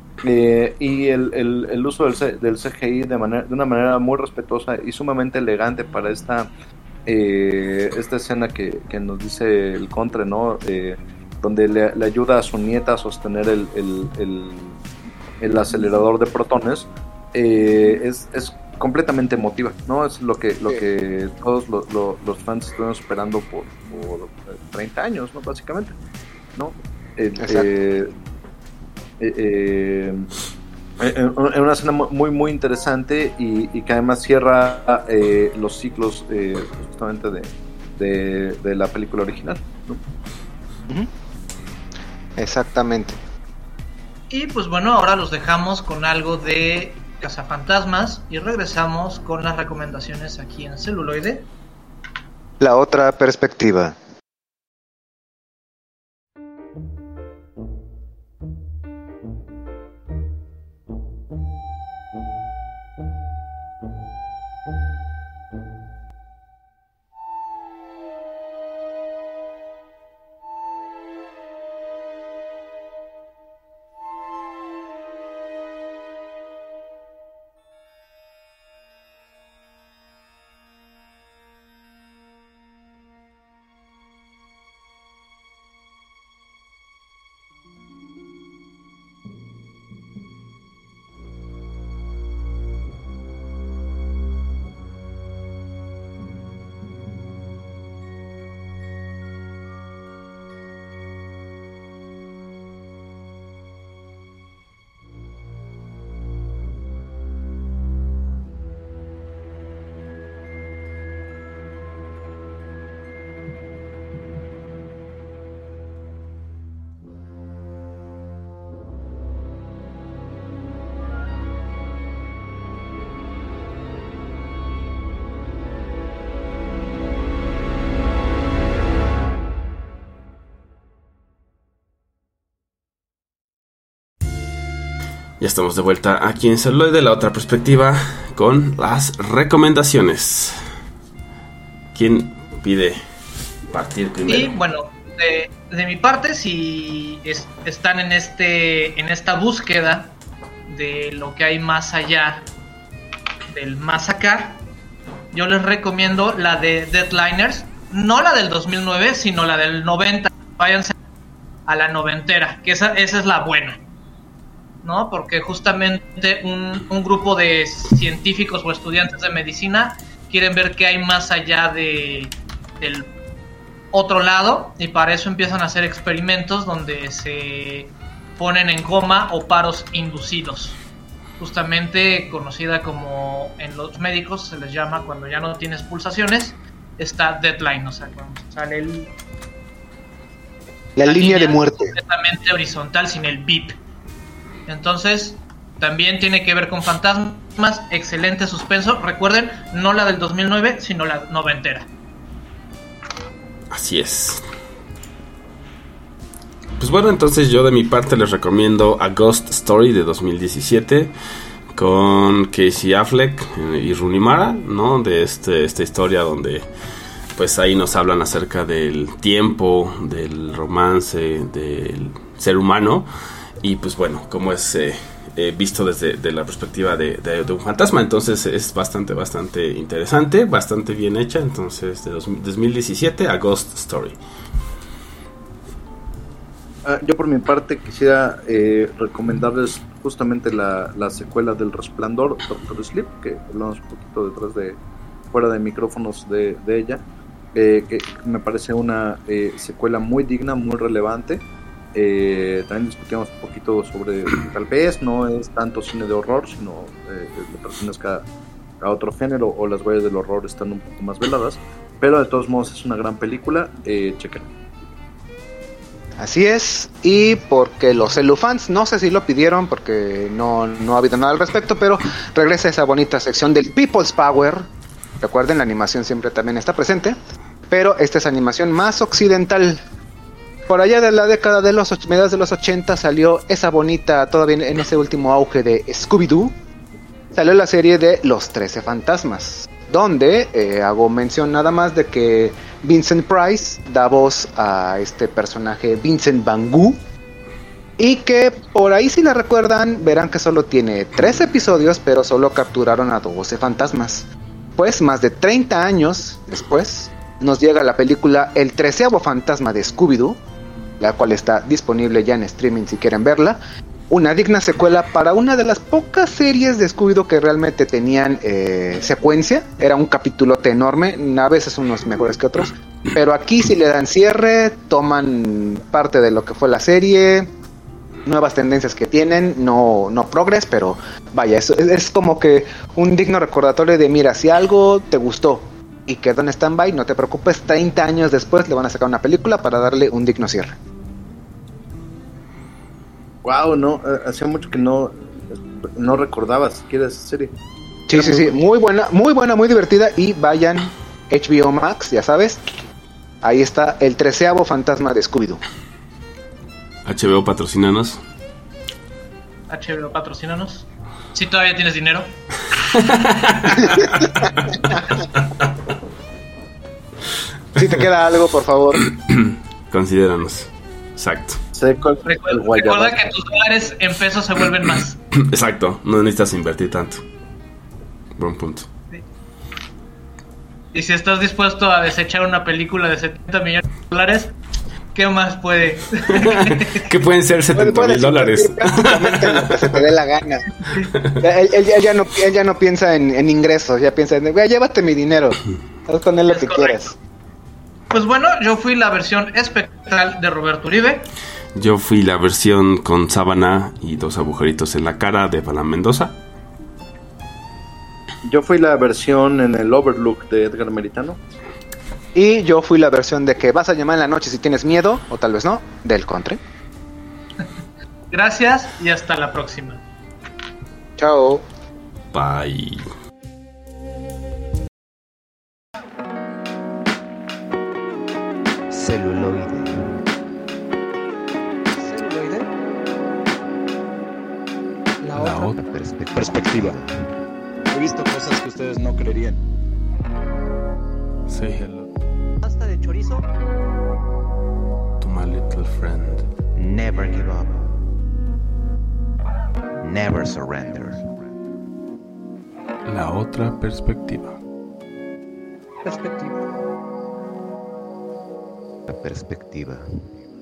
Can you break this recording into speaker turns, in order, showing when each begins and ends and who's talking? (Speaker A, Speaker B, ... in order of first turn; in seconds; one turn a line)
Speaker A: 0.2-6.5
Speaker A: 7.0-14.8
Speaker A: 15.4-25.9
Speaker A: 26.5-28.1
Speaker B: 27.4-27.7
Speaker A: 29.2-30.3
Speaker A: 31.0-40.0
Speaker B: 42.4-43.2
Speaker C: 44.3-51.5
Speaker B: 52.6-54.0
Speaker D: 135.4-140.6
Speaker D: 141.9-143.0
Speaker D: 143.7-144.5
Speaker C: 144.3-150.1
Speaker C: 150.7-152.5
Speaker C: 153.5-154.6
Speaker C: 155.3-160.9
Speaker C: 161.7-163.8
Speaker C: 164.8-173.1
Speaker C: 173.9-180.8
Speaker C: 181.4-189.1
Speaker B: 190.9-191.9
Speaker C: 191.0-193.8
Speaker C: 194.7-201.9
Speaker D: 203.7-204.4
Speaker D: 206.8-211.1
Speaker D: 211.7-216.6
Speaker D: 217.3-223.1
Speaker D: 223.6-234.2
Speaker A: 236.8-244.8
Speaker A: 245.3-247.0
Speaker A: 247.5-251.4
Speaker A: 251.9-258.2
Speaker A: 258.8-264.5
Speaker B: 266.2-274.6
Speaker B: 275.2-277.1
Speaker B: 277.7-279.8
Speaker B: 280.7-286.5
Speaker B: 287.3-297.0
Speaker B: 298.0-310.4
Speaker B: 311.0-313.6
Speaker B: 314.1-327.5
Speaker B: 328.2-340.8
Speaker A: 343.4-347.5
Speaker B: 348.1-352.6
Speaker A: 348.1-348.5
Speaker B: 353.4-355.6
Speaker D: 357.1-358.2
Speaker C: 359.7-362.3
Speaker D: 362.9-365.0
Speaker B: 367.8-369.0
Speaker D: 369.1-371.6
Speaker A: 371.7-373.3
Speaker C: 372.2-375.1
Speaker D: 375.3-377.2
Speaker D: 378.4-378.9
Speaker C: 380.9-384.5
Speaker C: 385.1-387.0
Speaker D: 386.3-390.0
Speaker B: 387.7-390.6
Speaker B: 391.4-397.1
Speaker C: 396.5-397.0
Speaker C: 398.1-401.2
Speaker D: 401.7-406.4
Speaker A: 408.4-411.4
Speaker B: 412.3-416.6
Speaker C: 418.3-420.0
Speaker B: 421.2-421.6
Speaker D: 422.3-423.1
Speaker E: 428.9-430.1
Speaker F: 431.9-432.7
Speaker F: 435.2-435.8
Speaker D: 435.3-435.7
Speaker E: 435.8-437.1
Speaker G: 436.3-437.0
Speaker G: 437.9-439.6
Speaker D: 441.5-442.1
Speaker F: 442.6-443.4
Speaker D: 445.2-446.5
Speaker E: 446.8-447.9
Speaker E: 450.0-451.5
Speaker D: 453.1-454.6
Speaker F: 456.0-456.6
Speaker E: 459.1-460.1